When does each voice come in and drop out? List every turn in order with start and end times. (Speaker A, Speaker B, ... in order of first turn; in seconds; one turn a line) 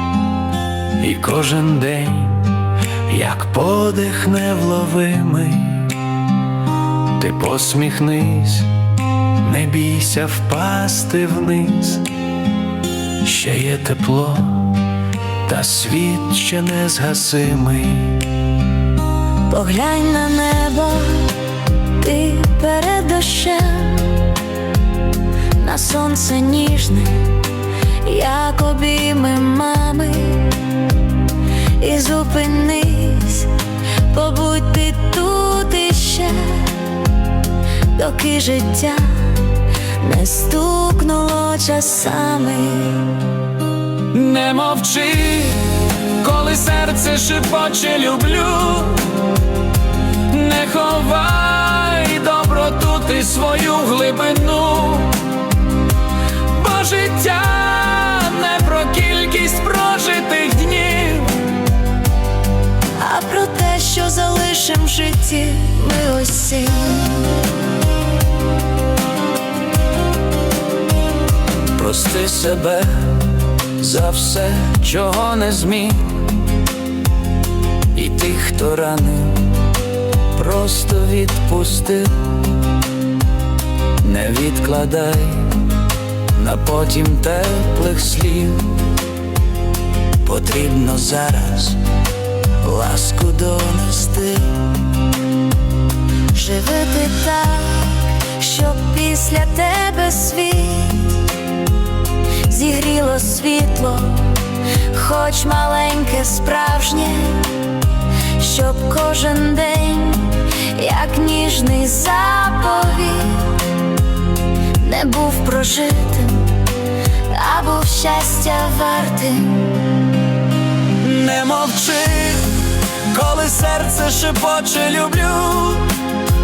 Speaker A: 1.0-6.0
Speaker A: 7.2-8.7
Speaker A: 9.4-12.1
Speaker A: 13.2-14.8
Speaker A: 15.5-18.2
Speaker B: 19.5-24.3
Speaker B: 25.6-27.5
Speaker B: 28.0-30.7
Speaker B: 31.8-33.5
Speaker B: 34.1-37.0
Speaker B: 37.9-43.2
Speaker A: 44.1-49.1
Speaker A: 50.3-55.3
Speaker A: 56.5-61.5
Speaker B: 63.0-67.4
Speaker A: 71.8-76.3
Speaker A: 77.9-79.5
Speaker A: 80.4-82.2
Speaker A: 84.0-85.6
Speaker A: 86.4-88.8
Speaker A: 90.2-91.8
Speaker A: 92.6-94.0
Speaker B: 96.3-101.3
Speaker B: 102.4-107.7
Speaker B: 108.3-113.7
Speaker B: 114.8-116.7
Speaker B: 117.3-119.9
Speaker A: 121.0-126.0